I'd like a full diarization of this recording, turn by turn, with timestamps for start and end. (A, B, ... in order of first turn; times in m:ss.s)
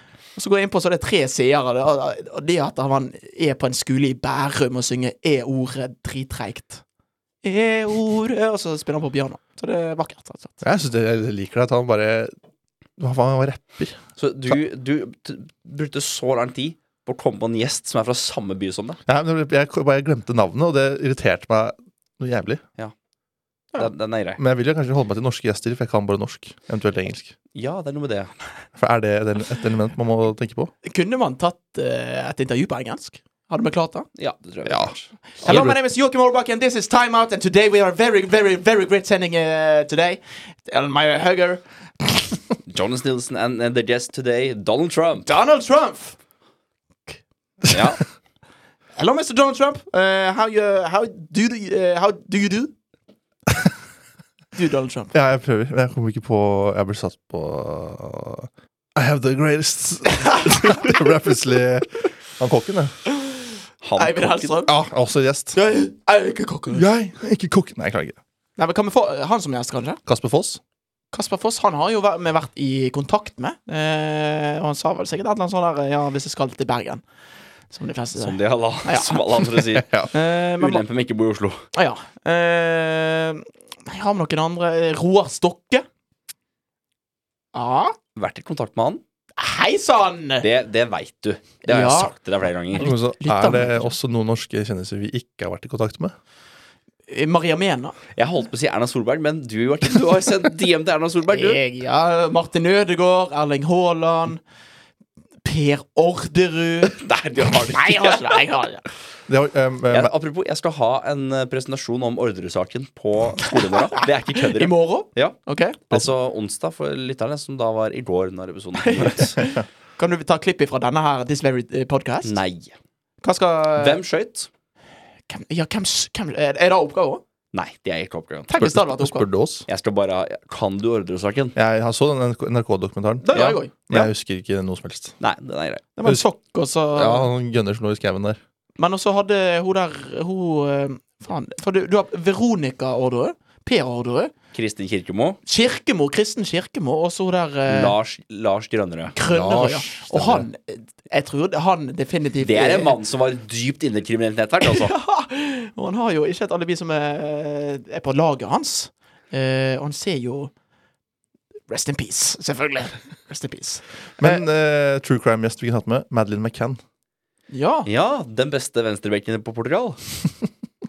0:00.4-0:06.8 A
0:07.4-0:10.6 A
0:10.6-0:12.3 B
0:13.0-0:14.0 B
0:14.2-0:19.0 C
0:19.1-0:22.6 B
0:23.8-0:24.4 C
0:24.4-0:27.3 B
0:27.5-0:28.3 C
0:28.8-0:30.7 B
0:30.8-0:34.1 A
0:34.2-0:35.7 C
0:34.7-0:35.8 B
0:35.4-0:42.2 A
0:42.7-0:45.3 C
0:45.3-0:46.2 A
0:47.7-0:48.0 C
0:49.0-0:52.7 A
0:54.5-0:55.1 A
0:55.1-1:02.9 B
1:03.8-1:04.6 C
1:04.0-1:04.7 A
1:04.7-1:05.6 B
1:05.5-1:06.9 A
1:06.7-1:08.2 B
1:08.6-1:10.0 A
1:10.1-1:10.6 B
1:11.1-1:17.0 A
1:17.7-1:19.5 A
1:18.2-1:21.6 C
1:19.8-1:20.1 B
1:20.1-1:20.8 A
1:21.7-1:25.8 A
1:27.5-1:28.0 A
1:28.2-1:29.0 C
1:29.4-1:30.5 A
1:30.4-1:32.9 C
1:31.7-1:32.1 A
1:32.8-1:33.9 A
1:32.8-1:36.1 B
1:37.1-1:38.0 A
1:38.2-1:41.6 C
1:41.3-1:44.4 A
1:45.4-1:47.0 A
1:46.9-1:48.4 C
1:47.7-1:48.8 A
1:49.3-1:50.1 B
1:49.9-1:55.4 C
1:54.5-1:55.8 A
1:55.9-1:59.4 C
1:58.8-2:02.4 A
2:02.2-2:02.7 C
2:03.2-2:04.0 A
2:03.8-2:04.5 C
2:05.3-2:07.2 A
2:07.5-2:08.6 C
2:08.5-2:09.3 A
2:08.6-2:09.7 B
2:09.7-2:11.6 C
2:11.6-2:15.2 B
2:13.2-2:13.8 A
2:13.3-2:14.1 C
2:15.2-2:15.8 C
2:16.0-2:17.3 A
2:17.0-2:18.4 B
2:18.8-2:24.3 A
2:24.5-2:25.4 C
2:25.4-2:28.0 A
2:27.7-2:29.2 C
2:29.2-2:33.0 A
2:29.3-2:30.5 B
2:32.4-2:34.9 C
2:34.6-2:40.5 A
2:41.7-2:44.4 A
2:44.2-2:46.8 B
2:47.5-2:47.9 A
2:47.9-2:50.0 C